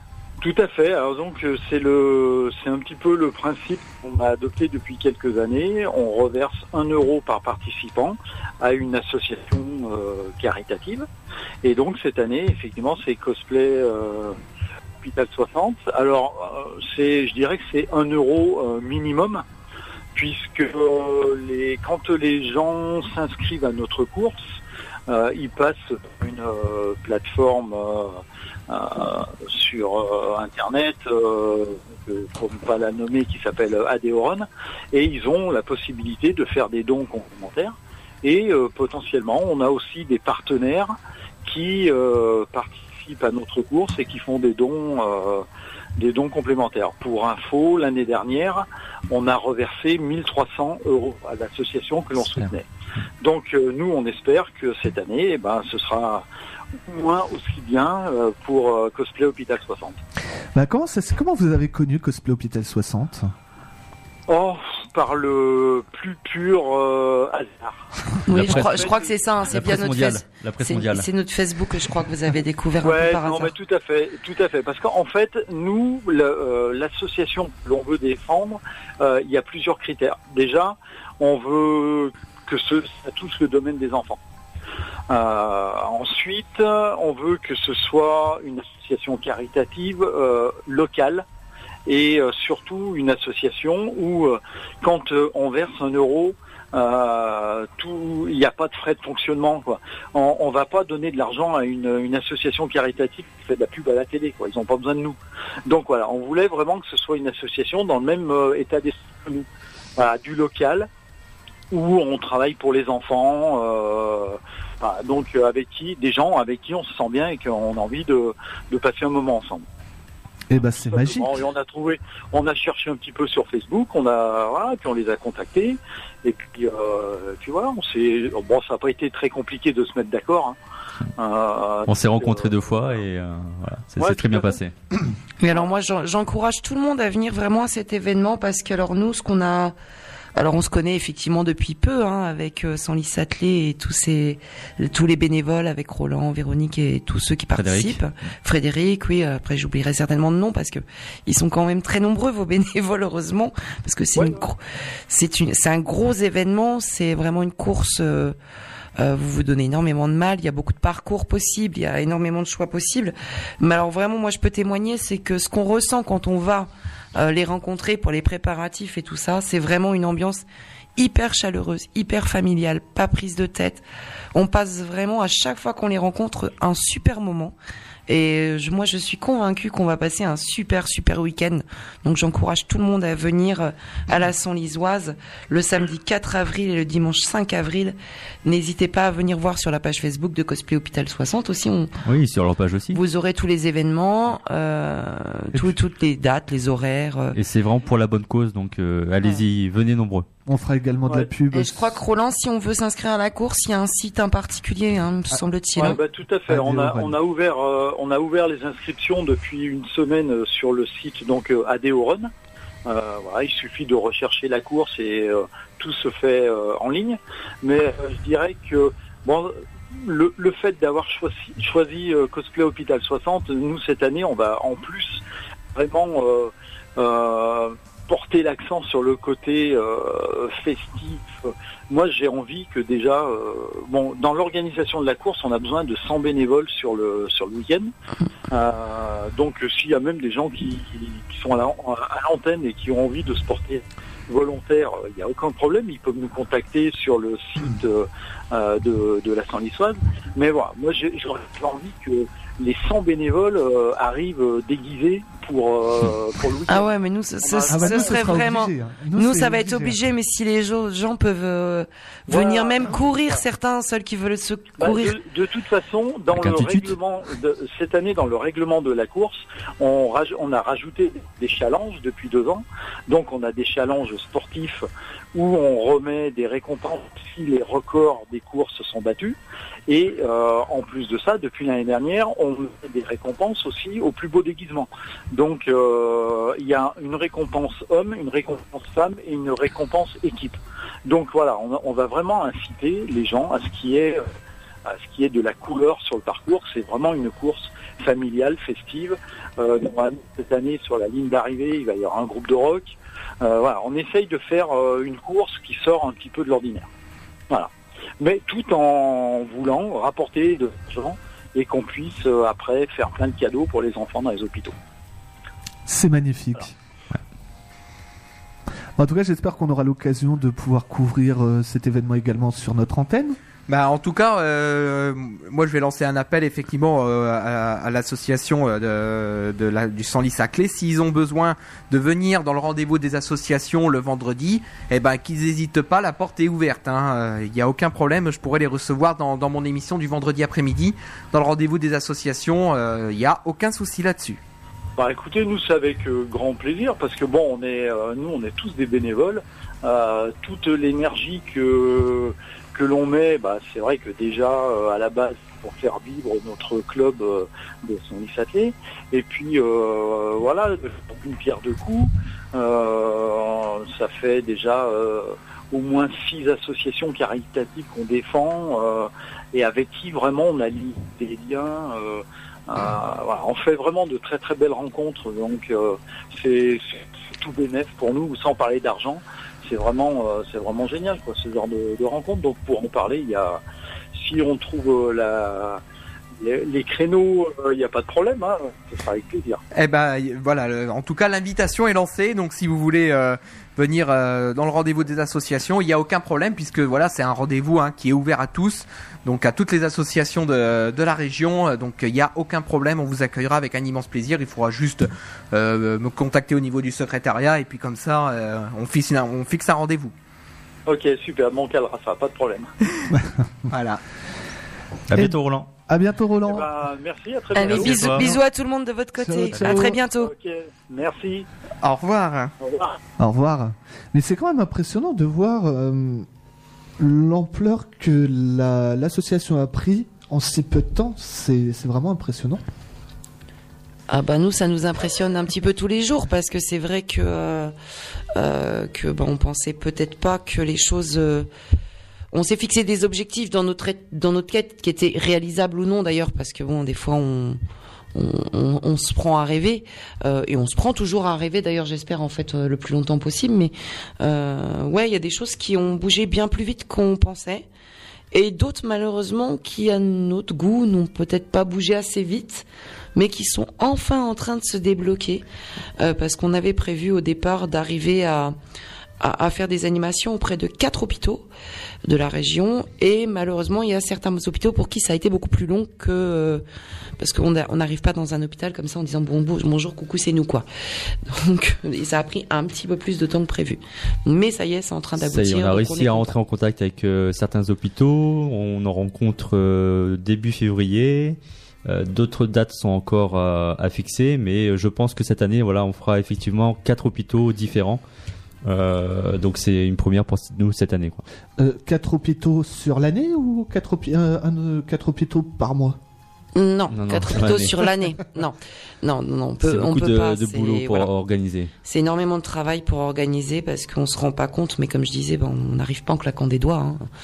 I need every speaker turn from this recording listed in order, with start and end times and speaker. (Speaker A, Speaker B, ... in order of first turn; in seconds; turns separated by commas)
Speaker A: 0.4-11.1, Speaker A: 11.6-14.4, Speaker A: 15.0-19.4, Speaker A: 20.1-24.4, Speaker A: 25.1-45.5, Speaker A: 46.0-52.7, Speaker A: 53.2-56.3, Speaker A: 56.9-60.0, Speaker B: 60.5-63.3, Speaker A: 64.3-69.1, Speaker C: 68.3-73.5, Speaker D: 68.3-69.0, Speaker D: 69.5-71.1, Speaker A: 72.8-84.2, Speaker A: 85.1-91.2, Speaker A: 91.9-110.9, Speaker A: 111.7-119.7, Speaker B: 120.5-121.4, Speaker A: 120.6-130.6, Speaker A: 131.2-132.5, Speaker D: 131.9-134.7, Speaker A: 134.0-134.6, Speaker C: 135.4-139.8, Speaker C: 140.4-158.4, Speaker D: 147.6-148.0, Speaker C: 159.0-170.4, Speaker C: 171.0-173.8, Speaker C: 174.3-177.5, Speaker C: 178.1-191.9, Speaker D: 192.1-193.0, Speaker C: 192.9-197.4, Speaker D: 197.3-200.3, Speaker B: 200.5-202.0, Speaker C: 201.5-206.0, Speaker A: 205.8-212.3, Speaker B: 206.5-207.2, Speaker A: 212.9-225.2, Speaker A: 225.8-237.9, Speaker A: 238.5-256.9, Speaker C: 256.7-265.2, Speaker A: 257.4-258.4, Speaker B: 257.7-260.0, Speaker A: 262.3-263.4, Speaker A: 264.8-279.4, Speaker D: 266.3-267.0, Speaker A: 279.9-294.3, Speaker A: 294.9-306.9, Speaker A: 307.5-314.8, Speaker B: 315.9-316.7, Speaker B: 319.0-323.4, Speaker E: 323.7-344.4, Speaker A: 345.0-383.6, Speaker A: 384.1-385.8, Speaker A: 386.4-389.6, Speaker E: 389.7-410.1, Speaker A: 410.9-412.7, Speaker B: 413.1-413.4, Speaker E: 413.7-414.0, Speaker D: 415.1-415.7, Speaker B: 415.1-416.7, Speaker A: 416.5-418.3, Speaker C: 417.5-420.3, Speaker D: 417.6-418.3, Speaker B: 419.2-420.0, Speaker A: 419.6-421.5, Speaker E: 421.8-422.5, Speaker A: 422.6-423.0, Speaker B: 423.2-426.3, Speaker B: 427.0-432.6, Speaker C: 434.1-437.7, Speaker C: 438.4-441.5, Speaker C: 442.3-447.6, Speaker C: 448.1-457.7, Speaker C: 458.3-465.4, Speaker C: 466.0-468.6, Speaker C: 469.2-471.5, Speaker C: 472.1-476.6, Speaker C: 477.2-480.7, Speaker C: 481.3-486.3, Speaker D: 485.2-498.0, Speaker D: 498.6-501.2, Speaker B: 501.6-506.0, Speaker C: 506.6-511.1, Speaker D: 506.9-507.9, Speaker D: 509.6-511.7, Speaker C: 511.8-517.1